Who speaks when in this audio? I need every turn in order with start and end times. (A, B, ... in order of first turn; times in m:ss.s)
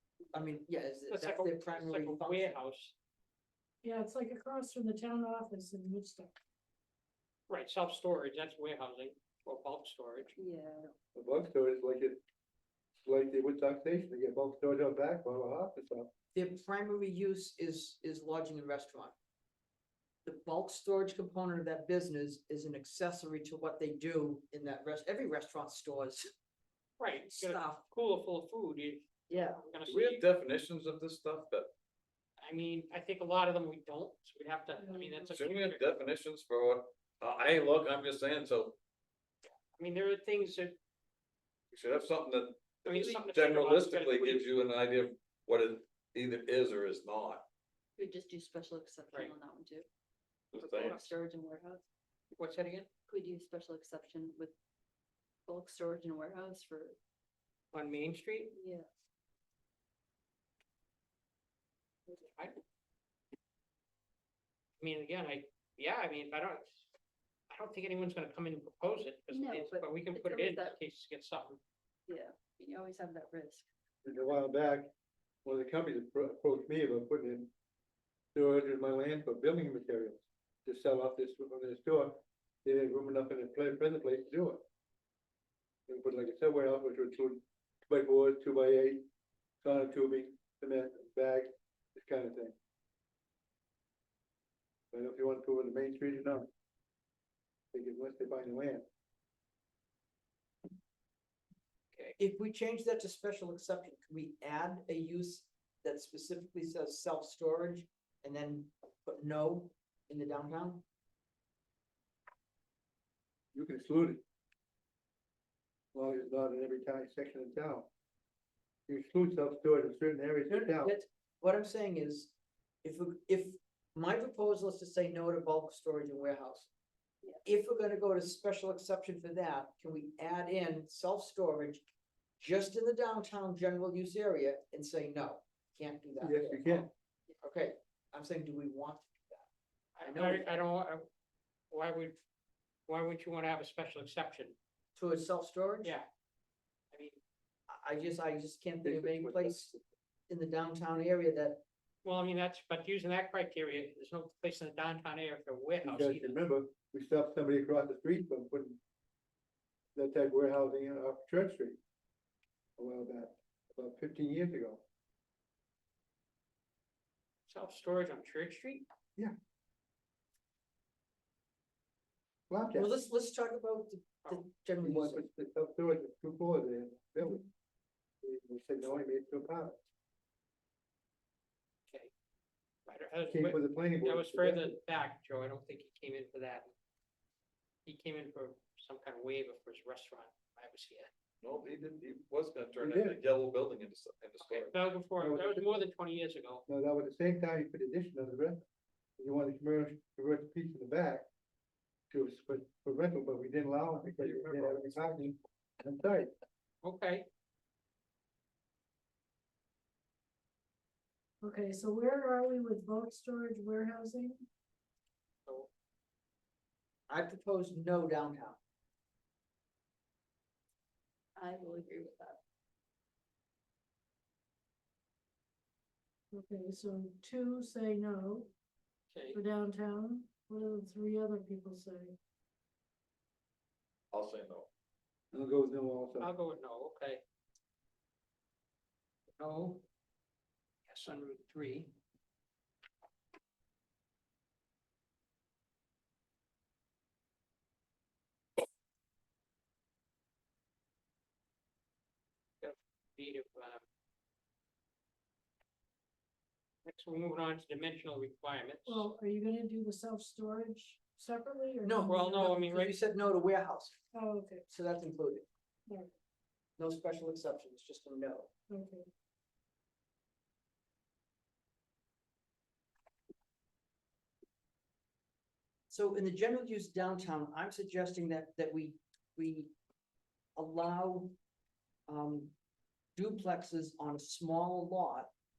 0:00.3-0:02.6 A
0:01.1-0:02.9 B
0:03.8-0:06.4 C
0:07.5-0:10.3 B
0:10.4-0:10.9 D
0:11.1-0:12.2 E
0:13.0-0:16.1 E
0:16.3-0:19.1 A
0:20.2-0:26.3 A
0:27.0-0:30.2 B
0:27.3-0:27.8 A
0:29.3-0:29.6 A
0:29.8-0:31.7 F
0:32.4-0:35.9 B
0:35.3-0:38.8 F
0:39.7-0:40.7 B
0:41.7-0:47.4 F
0:42.8-0:44.4 B
0:48.0-0:49.8 D
0:49.1-0:49.4 B
0:50.5-0:51.0 F
0:50.7-0:51.1 B
0:50.9-0:51.8 D
0:52.4-0:52.9 B
0:53.1-0:54.5 D
0:55.5-0:57.0 D
0:57.7-0:58.6 B
0:58.6-0:58.9 D
1:02.1-1:02.6 B
1:04.8-1:06.9 B
1:07.5-1:11.6 B
1:09.3-1:10.7 D
1:12.1-1:13.6 D
1:14.0-1:14.9 E
1:15.4-1:17.5 E
1:18.3-1:24.6 E
1:25.9-1:29.0 E
1:29.6-1:32.5 E
1:34.9-1:36.5 E
1:37.7-1:38.8 E
1:42.2-1:50.8 A
1:53.5-1:54.2 E
1:55.9-1:57.9 E
1:58.9-2:00.9 E
2:00.5-2:02.3 A
2:02.8-2:06.7 A
2:07.4-2:11.8 A
2:12.4-2:16.9 A
2:16.2-2:16.9 E
2:17.4-2:19.5 A
2:20.0-2:21.1 B
2:20.0-2:20.5 A
2:21.7-2:22.2 B
2:22.9-2:24.5 B
2:25.0-2:26.0 A
2:26.9-2:27.2 B
2:27.7-2:29.7 A
2:28.8-2:29.8 E
2:30.3-2:31.6 A
2:32.0-2:36.4 B
2:35.8-2:38.8 E
2:39.9-2:41.8 E
2:42.8-2:44.8 E
2:47.5-2:48.8 B
2:52.5-2:53.0 E
2:52.7-2:55.2 A
2:54.8-2:57.5 E
2:58.2-2:59.8 E
3:02.8-3:06.7 B
3:03.3-3:04.8 E
3:07.8-3:11.1 B
3:11.4-3:14.8 F
3:12.8-3:13.2 E
3:14.4-3:16.6 B
3:15.2-3:15.8 E
3:16.7-3:18.6 E
3:19.2-3:21.3 E
3:22.1-3:26.3 E
3:24.2-3:24.8 F
3:26.8-3:27.3 B
3:31.4-3:34.5 C
3:37.1-3:38.6 A
3:41.4-3:42.4 D
3:46.3-3:48.5 C
3:49.1-3:49.4 B
3:49.3-3:52.2 C
3:54.1-3:54.7 F
3:55.3-3:56.3 E
3:56.2-3:57.2 B
3:59.4-3:59.8 B
4:00.9-4:01.9 B
4:12.6-4:13.8 B
4:16.8-4:19.1 B
4:18.8-4:22.5 C
4:21.8-4:24.0 A
4:22.1-4:22.9 B
4:24.1-4:24.6 C
4:24.7-4:25.4 A
4:26.8-4:28.5 A
4:28.7-4:29.0 C
4:35.9-4:39.7 A
4:40.6-4:41.3 A
4:42.1-4:42.5 A
4:43.2-4:45.3 A